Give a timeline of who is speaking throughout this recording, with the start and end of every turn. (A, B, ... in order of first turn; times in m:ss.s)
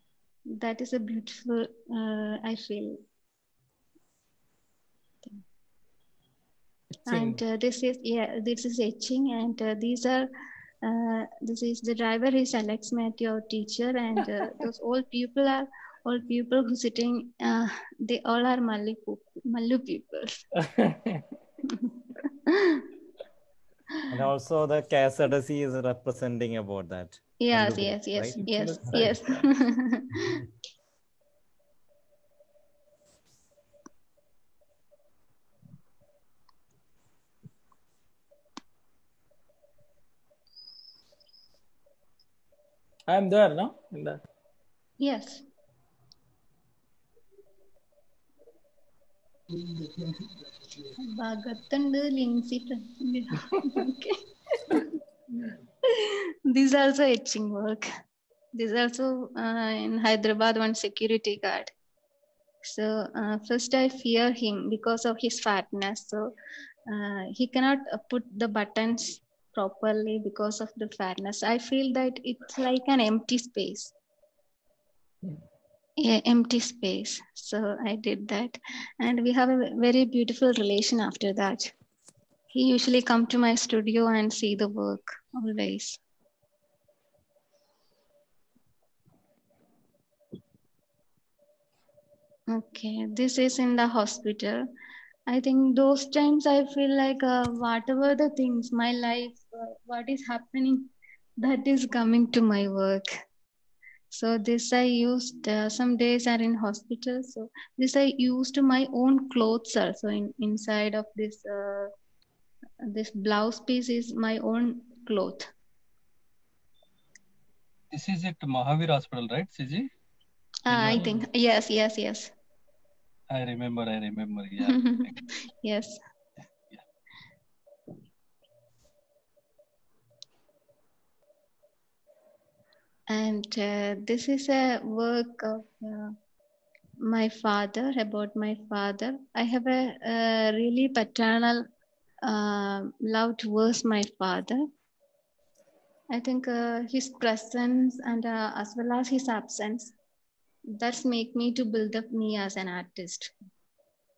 0:00.5-0:03.0 A
0:07.1-0:07.4 B
0:07.1-0:10.3 A
0:10.8-0:20.4 A
0:20.6-0:21.2 B
0:22.5-0:22.8 A
0:24.1-0:28.4 C
0:27.4-0:30.2 A
0:28.4-0:29.4 B
0:43.1-0:44.2 B
0:45.0-0:45.4 A
0:51.0-0:54.8 A
0:55.9-0:57.9 A
0:58.6-1:01.7 A
1:02.6-1:06.3 A
1:06.9-1:13.9 A
1:16.0-1:21.7 A
1:22.5-1:26.0 A
1:32.5-1:34.6 A
1:35.3-1:40.9 A
1:41.4-1:43.1 A
1:44.1-1:51.9 A
1:52.9-1:55.5 A
1:57.9-1:59.8 D
2:00.7-2:02.3 A
2:03.3-2:04.6 D
2:04.6-2:05.1 A
2:05.6-2:06.0 A
2:13.1-2:16.1 A
2:17.0-2:21.6 A
2:22.2-2:24.6 A
2:26.1-2:29.9 A
2:30.8-2:33.3 A